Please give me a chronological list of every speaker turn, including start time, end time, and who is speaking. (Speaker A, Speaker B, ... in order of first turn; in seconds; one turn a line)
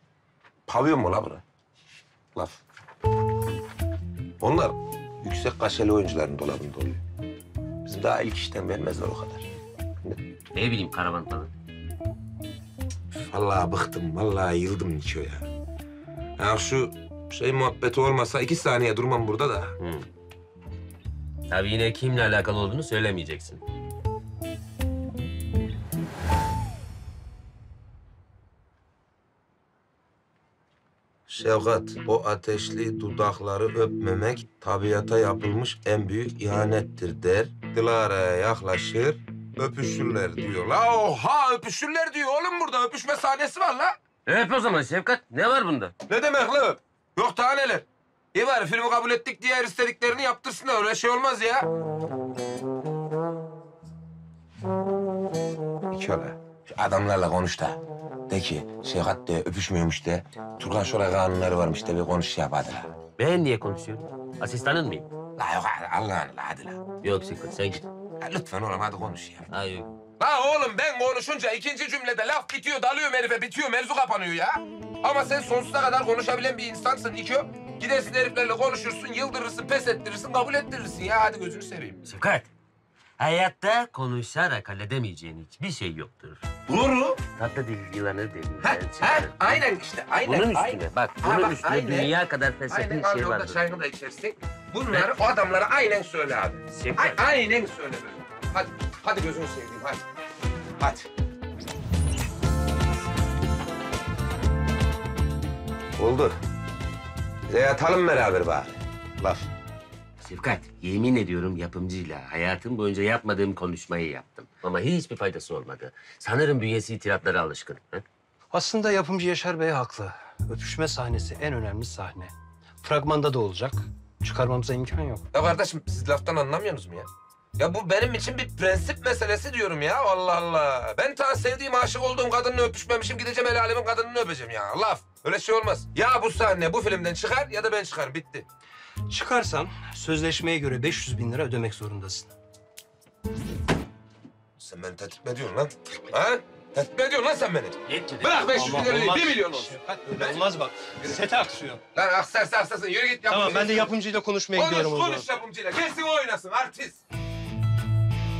Speaker A: 0.7-1.4
Speaker A: 4.4-7.0
Speaker A: 7.8-9.4
Speaker B: 10.5-11.5
Speaker A: 13.3-15.5
Speaker A: 16.4-19.7
Speaker B: 19.8-20.1
Speaker B: 21.5-23.6
Speaker A: 31.3-44.0
Speaker B: 44.2-45.9
Speaker A: 46.1-51.6
Speaker A: 55.9-62.9
Speaker B: 63.2-65.1
Speaker A: 65.4-66.8
Speaker B: 67.0-67.9
Speaker A: 68.2-69.5
Speaker B: 69.5-69.9
Speaker A: 70.2-82.0
Speaker B: 82.0-82.5
Speaker B: 83.2-86.5
Speaker A: 86.7-87.2
Speaker B: 87.3-89.6
Speaker A: 88.6-92.1
Speaker B: 90.2-93.6
Speaker A: 92.7-100.0
Speaker B: 96.7-97.2
Speaker A: 100.8-101.1
Speaker A: 106.0-106.3
Speaker A: 107.5-109.5
Speaker B: 110.2-118.0
Speaker C: 118.5-125.2
Speaker A: 125.3-138.4
Speaker C: 139.1-142.3
Speaker A: 144.6-150.4
Speaker B: 147.8-148.7
Speaker C: 148.5-151.8
Speaker A: 151.9-153.9
Speaker C: 153.3-155.3
Speaker A: 154.5-157.0